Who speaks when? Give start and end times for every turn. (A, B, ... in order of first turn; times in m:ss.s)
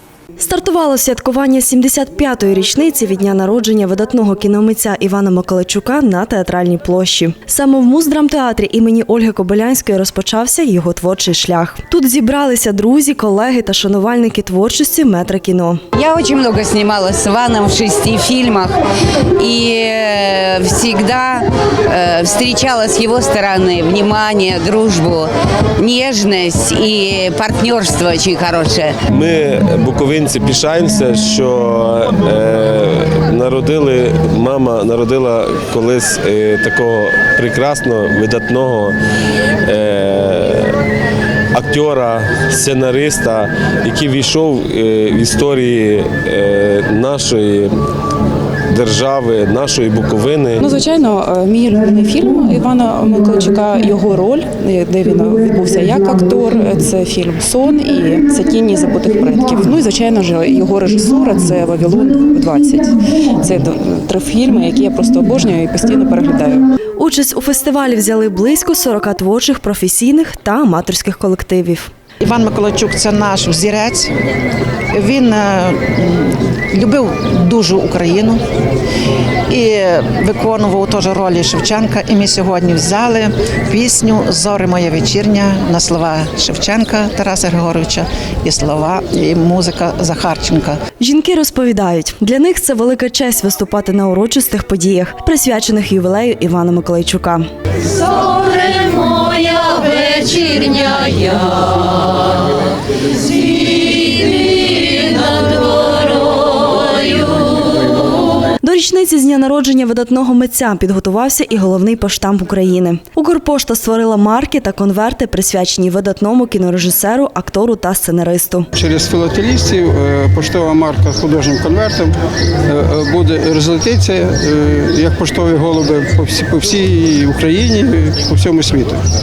0:00.4-0:15.8 A
0:16.0-0:18.8 B
0:19.4-0:29.0 B
0:29.1-0:39.0 C
0:39.6-0:40.8 C
0:41.5-0:47.7 C
0:48.7-0:50.6 C
0:50.6-1:06.7 D
1:07.0-1:11.9 A
1:12.2-1:14.1 E
1:14.9-1:18.4 E
1:19.5-1:30.8 E
1:31.0-1:37.4 A
1:38.9-1:41.4 B
1:48.6-1:58.7 A
1:58.7-2:02.2 F
2:02.7-2:09.0 F